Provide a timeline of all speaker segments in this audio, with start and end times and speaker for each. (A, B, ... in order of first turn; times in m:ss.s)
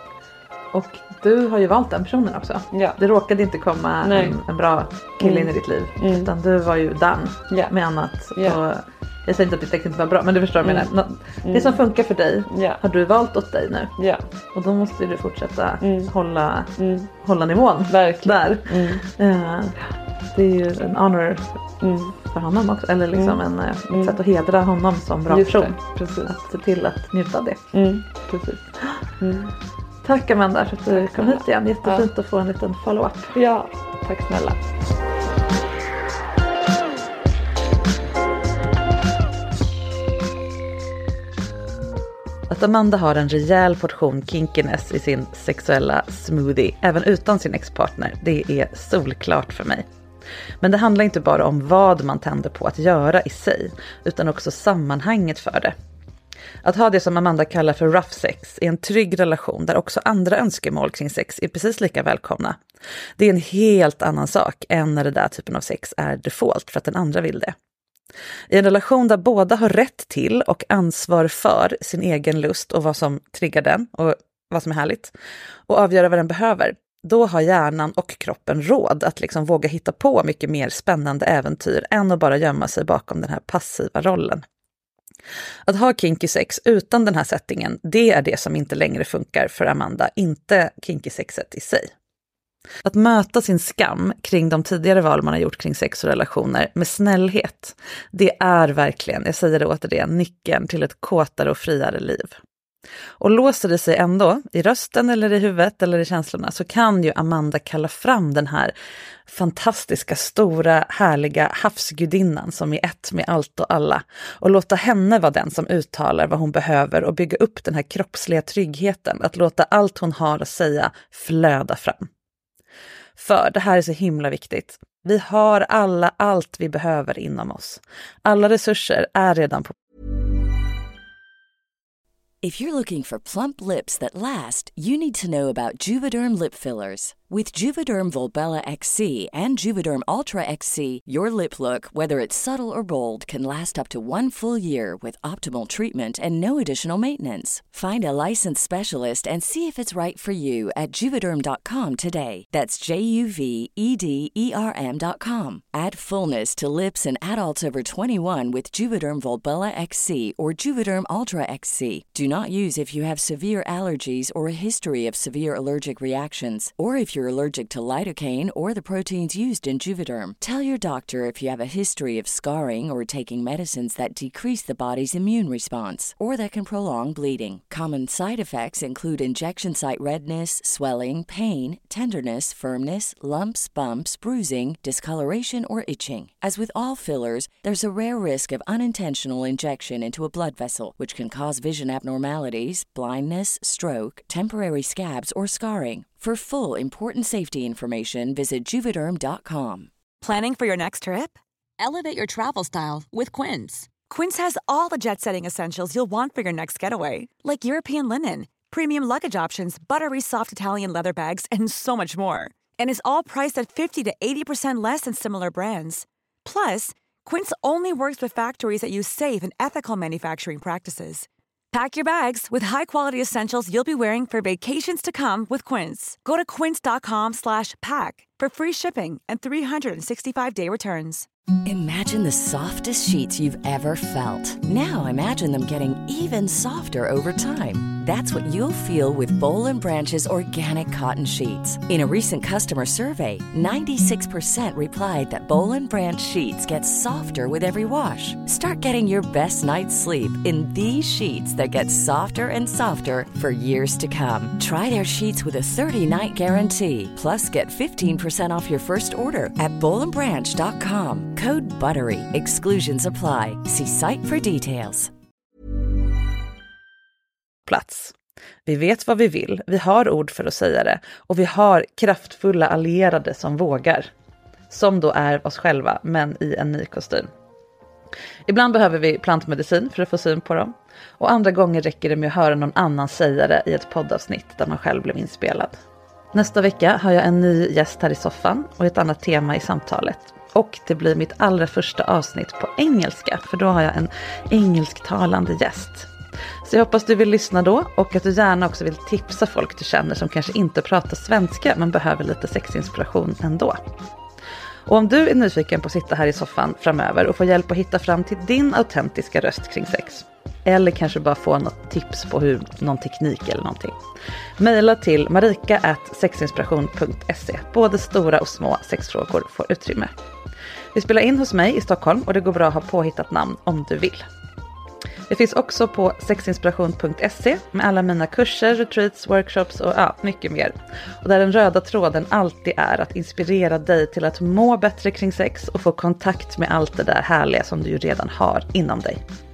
0:00.7-0:13.9 A
0:02.7-0:03.0 B
0:04.0-0:04.4 B
0:05.2-0:06.3 B
0:08.3-0:08.6 B
0:10.6-0:10.9 B
0:11.4-0:11.8 B
0:12.5-0:12.8 B
0:14.0-0:14.2 B
0:14.5-0:19.8 A
0:15.8-0:16.1 B
0:16.8-0:17.1 B
0:17.9-0:19.0 B
0:20.3-0:21.5 A
0:21.8-0:22.2 B
0:22.3-0:27.6 A
0:23.1-0:23.4 B
0:23.9-0:24.2 B
0:25.3-0:26.4 B
0:27.7-0:28.6 B
0:29.2-0:29.5 B
0:30.0-0:33.4 A
0:30.9-0:32.1 B
0:33.3-0:34.6 B
0:42.5-0:49.8 A
0:50.6-0:55.7 A
0:56.6-1:02.6 A
1:03.2-1:07.5 A
1:08.5-1:15.1 A
1:15.7-1:24.4 A
1:25.6-1:31.9 A
1:32.8-1:42.4 A
1:43.2-1:48.7 A
1:49.2-2:02.1 A
2:03.2-2:09.7 A
2:12.4-3:19.9 C
3:20.2-3:51.2 D
3:51.6-4:25.1 C
4:27.7-4:28.1 A
4:28.6-4:34.1 A
4:34.7-4:37.3 A
4:38.5-4:45.8 A
4:46.3-4:56.1 A
4:56.6-5:03.8 A
5:04.8-5:14.0 A
5:14.6-5:20.1 A
5:20.9-5:24.2 A
5:25.3-5:39.2 A